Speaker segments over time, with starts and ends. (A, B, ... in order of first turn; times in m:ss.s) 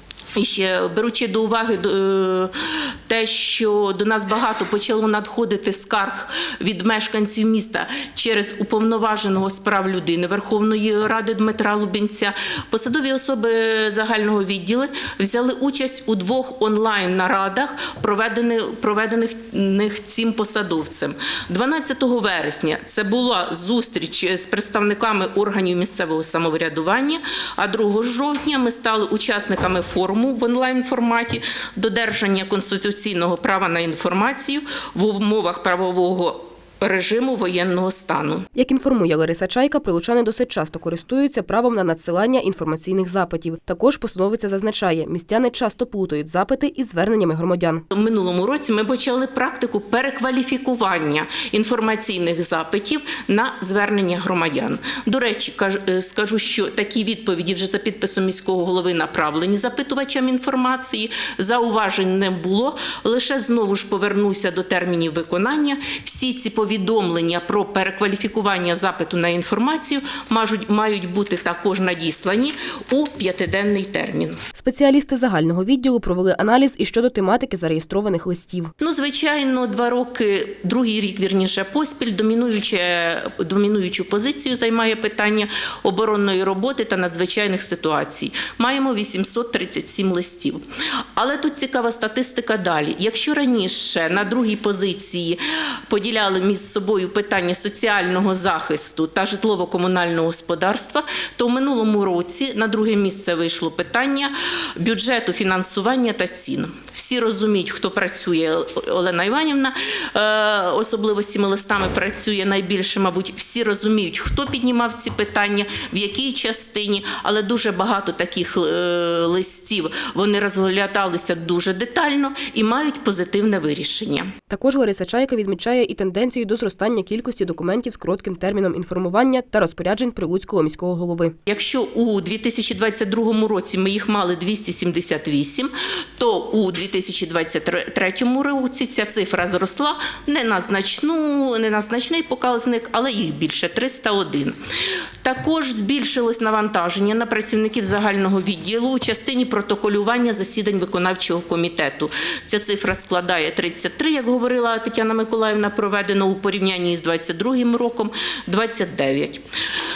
0:00.4-0:02.5 A
0:03.1-0:38.4 A
0:38.5-0:47.8 B
0:47.9-1:14.4 A
1:14.5-1:18.7 B
1:18.8-1:30.6 A
1:31.2-2:04.3 A
2:04.5-2:11.3 B
2:11.4-2:24.6 A
2:25.2-2:39.4 A